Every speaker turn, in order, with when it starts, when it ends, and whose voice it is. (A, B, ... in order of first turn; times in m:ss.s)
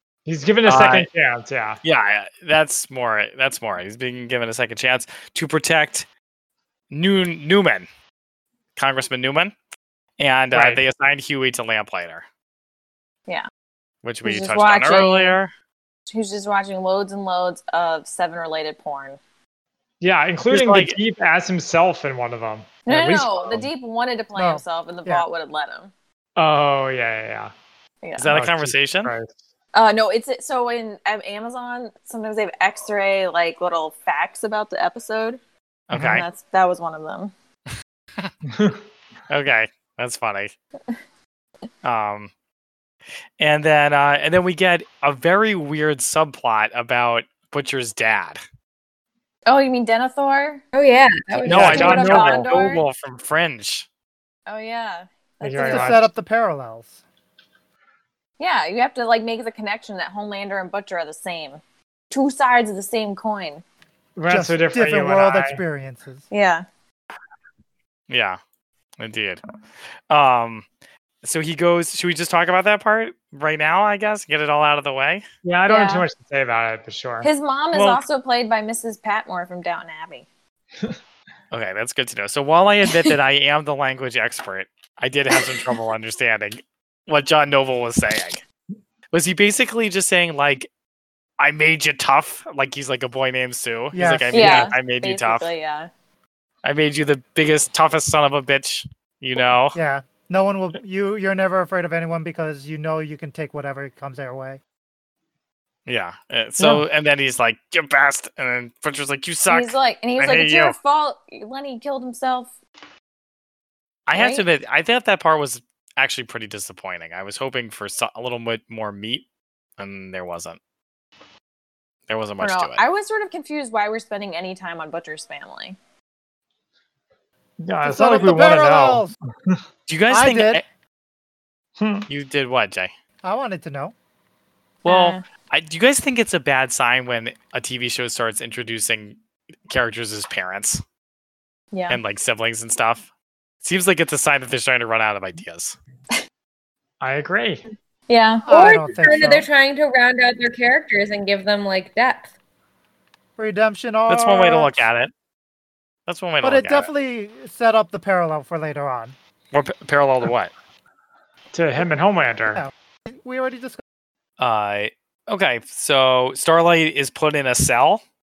0:00.2-0:01.8 A
0:00.6-0:01.1 B
0:01.8-0:06.1 B
0:06.9-0:07.9 B
0:08.8-0:09.5 B
0:10.2-0:12.2 B
0:10.5-0:10.8 A
0:14.0-0:15.5 B
0:14.2-0:15.4 C
0:16.1-0:19.2 C
0:20.0-0:23.7 A
0:20.5-0:21.0 B
0:22.8-0:25.9 C
0:24.3-0:25.2 D
0:26.4-0:27.5 A
0:28.0-0:28.3 C
0:28.2-0:29.1 B
0:28.3-0:29.3 A
0:29.7-0:35.4 C
0:35.9-0:36.2 B
0:35.9-0:36.2 A
0:36.0-0:37.3 C
0:38.5-0:38.8 A
0:39.3-0:40.5 B
0:41.8-0:42.3 B
0:43.4-0:48.4 B
0:49.4-0:50.6 C
0:50.7-0:52.1 E
0:51.4-0:52.8 C
0:51.4-0:53.8 B
0:51.5-0:52.5 A
0:54.5-0:55.9 C
0:55.4-0:56.1 A
0:55.6-0:57.0 D
0:58.4-1:03.6 C
1:04.2-1:05.6 A
1:04.3-1:06.2 D
1:06.3-1:06.6 C
1:08.1-1:08.4 B
1:09.0-1:09.4 B
1:10.1-1:10.6 B
1:11.2-1:15.2 B
1:15.4-1:17.3 A
1:15.7-1:16.0 C
1:17.2-1:20.2 C
1:17.7-1:18.0 B
1:21.5-1:28.4 B
1:25.3-1:25.6 C
1:29.1-1:30.7 B
1:31.4-1:35.5 B
1:33.9-1:34.7 D
1:34.3-1:35.9 C
1:36.6-1:39.8 B
1:39.7-1:44.6 D
1:45.8-1:50.8 B
1:46.6-1:46.8 A
1:49.5-1:52.5 C
1:54.1-1:59.2 B
1:54.1-1:54.4 C
1:59.8-2:00.6 B
2:02.1-2:02.8 B
2:02.4-2:05.8 C
2:07.6-2:09.6 A
2:07.8-2:09.1 D
2:09.9-2:10.6 B
2:10.1-2:10.6 D
2:11.8-2:12.0 A
2:12.1-2:12.9 B
2:13.2-2:13.9 D
2:14.8-2:15.2 C
2:14.8-2:19.2 B
2:19.7-2:20.8 B
2:21.7-2:22.0 C
2:21.9-2:23.1 B
2:23.6-2:25.8 B
2:27.0-2:27.6 A
2:28.1-2:28.4 C
2:28.4-2:29.5 D
2:28.5-2:32.3 E
2:33.4-2:34.9 D
2:34.1-2:35.1 B
2:36.1-2:36.9 B
2:36.4-2:39.2 D
2:39.5-2:40.5 B
2:41.5-2:42.6 A
2:42.5-2:43.8 D
2:44.4-2:48.0 B